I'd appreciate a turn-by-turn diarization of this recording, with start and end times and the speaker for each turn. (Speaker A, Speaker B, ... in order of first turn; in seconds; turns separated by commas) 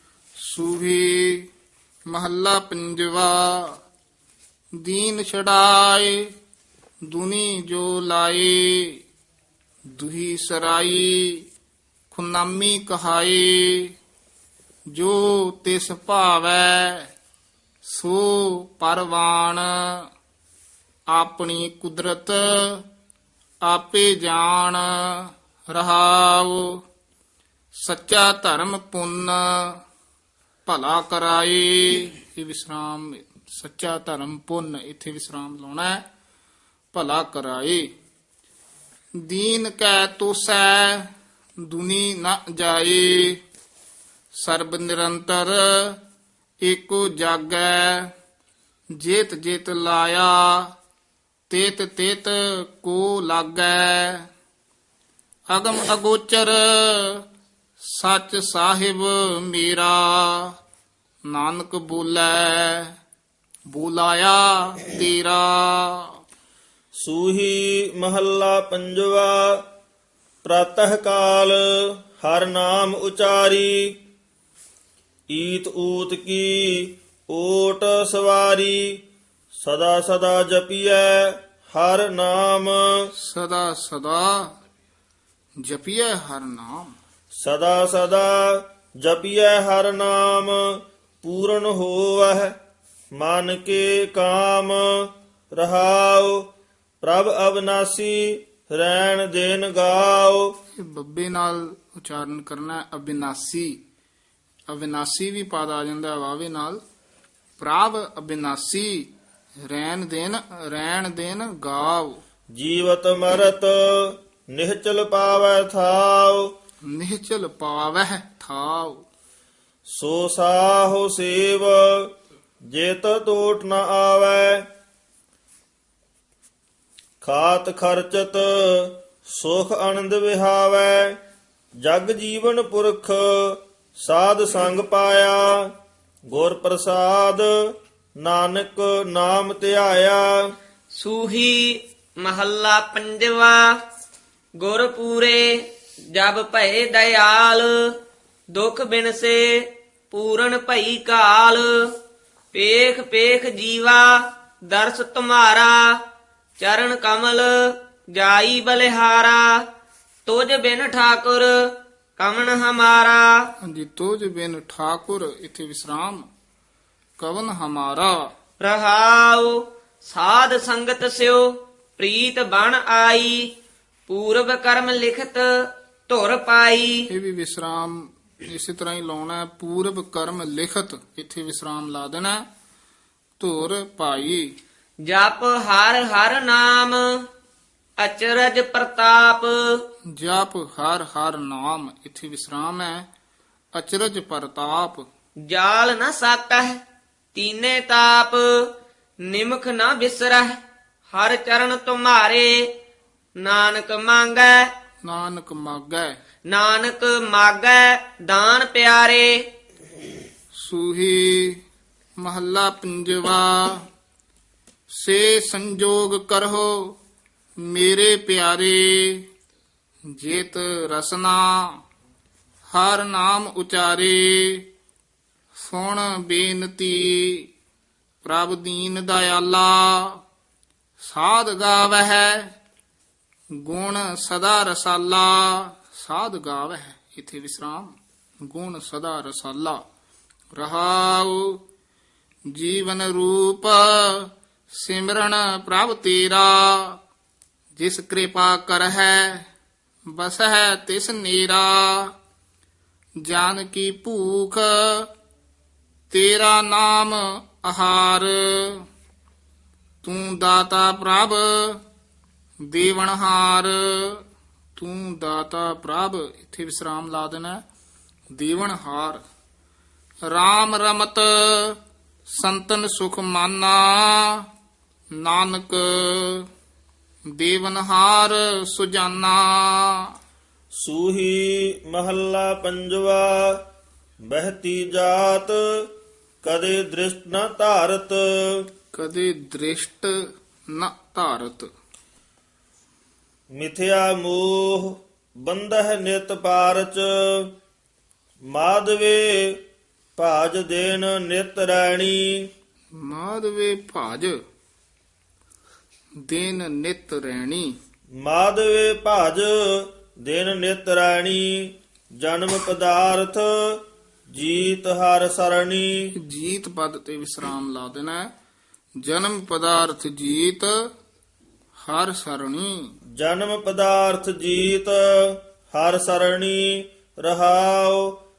Speaker A: 0.4-1.5, Speaker A: 2.1-3.8, Speaker A: 4.8-6.3, Speaker A: 7.1-9.0, Speaker A: 9.9-11.5, Speaker A: 12.1-13.9, Speaker A: 14.9-17.1, Speaker A: 17.8-20.1, Speaker A: 21.1-22.9, Speaker A: 23.6-26.7, Speaker A: 27.8-29.8, Speaker A: 30.7-36.0, Speaker A: 36.9-37.9, Speaker A: 39.2-41.1, Speaker A: 41.6-43.4, Speaker A: 44.4-46.0, Speaker A: 46.6-48.1, Speaker A: 49.0-50.7, Speaker A: 51.5-54.3, Speaker A: 55.5-57.2, Speaker A: 57.8-60.5, Speaker A: 61.3-62.9, Speaker A: 63.7-66.0, Speaker B: 67.0-69.6, Speaker B: 70.4-73.9, Speaker B: 75.3-79.0, Speaker B: 79.6-83.0, Speaker A: 83.2-84.5, Speaker A: 85.6-86.9, Speaker B: 87.4-92.5, Speaker B: 93.2-96.5, Speaker B: 97.0-100.5, Speaker A: 100.8-103.8, Speaker A: 104.7-106.8, Speaker A: 107.6-109.1, Speaker A: 109.7-112.2, Speaker B: 112.5-116.5, Speaker A: 116.9-119.0, Speaker B: 119.9-122.1, Speaker B: 122.7-124.7, Speaker B: 127.2-131.2, Speaker B: 131.8-135.7, Speaker B: 136.3-137.5, Speaker B: 138.2-140.4, Speaker C: 140.9-143.7, Speaker C: 144.6-147.9, Speaker C: 148.5-151.9, Speaker C: 152.5-154.2, Speaker C: 154.7-155.9, Speaker C: 156.6-159.5, Speaker C: 160.3-163.3, Speaker A: 163.6-166.3, Speaker A: 167.2-168.3, Speaker C: 168.6-173.4, Speaker C: 174.1-175.5, Speaker C: 176.1-177.0, Speaker A: 177.1-182.4, Speaker A: 183.4-184.5, Speaker C: 185.1-187.0, Speaker C: 188.0-189.5, Speaker A: 190.2-193.1, Speaker A: 193.8-195.1, Speaker C: 195.5-196.8, Speaker C: 197.3-198.5, Speaker C: 199.3-202.6, Speaker C: 203.4-204.6, Speaker A: 205.0-206.2, Speaker C: 206.5-209.3, Speaker A: 210.5-211.6, Speaker A: 212.2-213.9, Speaker A: 214.9-217.0, Speaker A: 217.6-219.3, Speaker A: 220.1-221.8, Speaker A: 222.7-224.7, Speaker A: 225.6-227.5, Speaker A: 228.2-230.2, Speaker A: 231.0-232.5, Speaker A: 233.6-239.8, Speaker A: 240.6-241.6, Speaker A: 242.5-247.0, Speaker A: 247.8-249.5, Speaker A: 250.1-252.1, Speaker A: 253.2-255.1, Speaker A: 256.1-258.8, Speaker A: 260.0-261.8, Speaker A: 262.7-264.2, Speaker A: 264.8-267.6, Speaker A: 268.3-269.2, Speaker A: 270.3-271.8, Speaker A: 272.3-274.5, Speaker A: 275.2-276.5, Speaker A: 277.4-280.1, Speaker B: 280.8-283.6, Speaker B: 284.3-285.9, Speaker B: 286.4-288.6, Speaker A: 288.9-290.1, Speaker A: 290.7-291.7, Speaker B: 293.5-297.5, Speaker B: 298.5-299.6, Speaker B: 300.2-302.5, Speaker A: 303.0-304.3, Speaker A: 306.2-307.7, Speaker B: 308.2-313.8, Speaker B: 314.3-316.0, Speaker A: 316.1-318.3, Speaker A: 319.0-320.7, Speaker A: 321.8-322.9, Speaker B: 323.2-328.2